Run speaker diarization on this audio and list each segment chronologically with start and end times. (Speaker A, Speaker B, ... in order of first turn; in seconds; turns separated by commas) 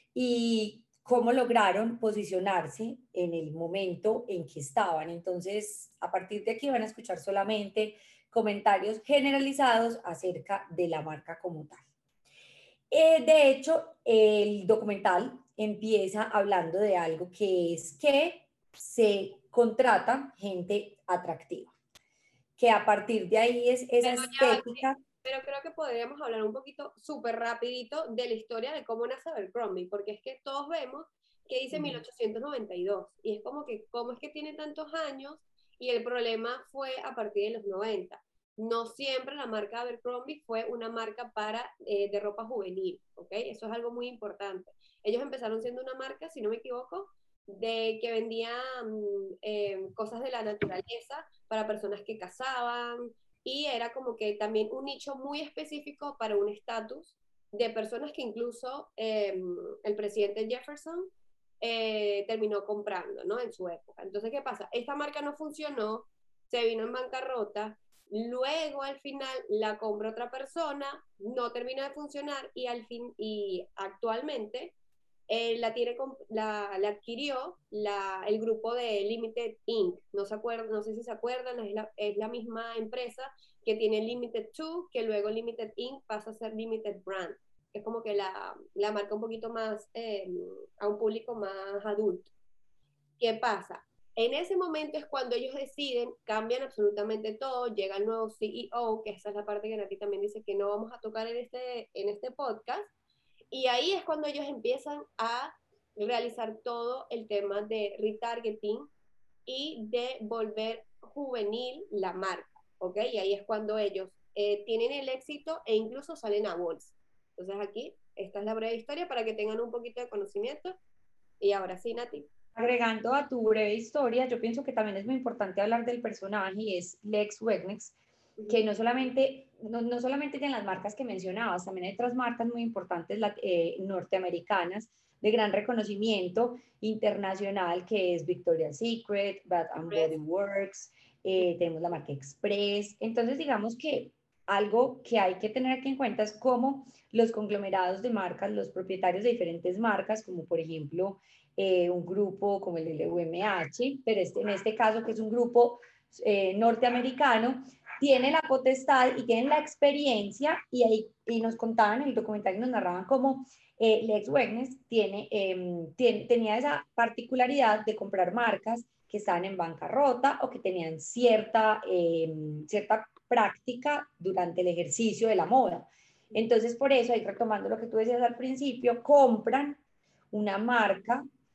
Speaker A: 0.1-11.8, Speaker A: 12.9-21.7, Speaker A: 22.6-25.0, Speaker B: 24.0-74.7, Speaker A: 31.7-32.0, Speaker B: 75.3-92.3, Speaker B: 93.2-102.9, Speaker B: 103.5-108.9, Speaker B: 109.5-120.8, Speaker B: 121.4-122.3, Speaker A: 122.5-128.0, Speaker B: 128.4-128.7, Speaker A: 128.5-179.8, Speaker B: 139.9-140.1, Speaker A: 180.3-181.2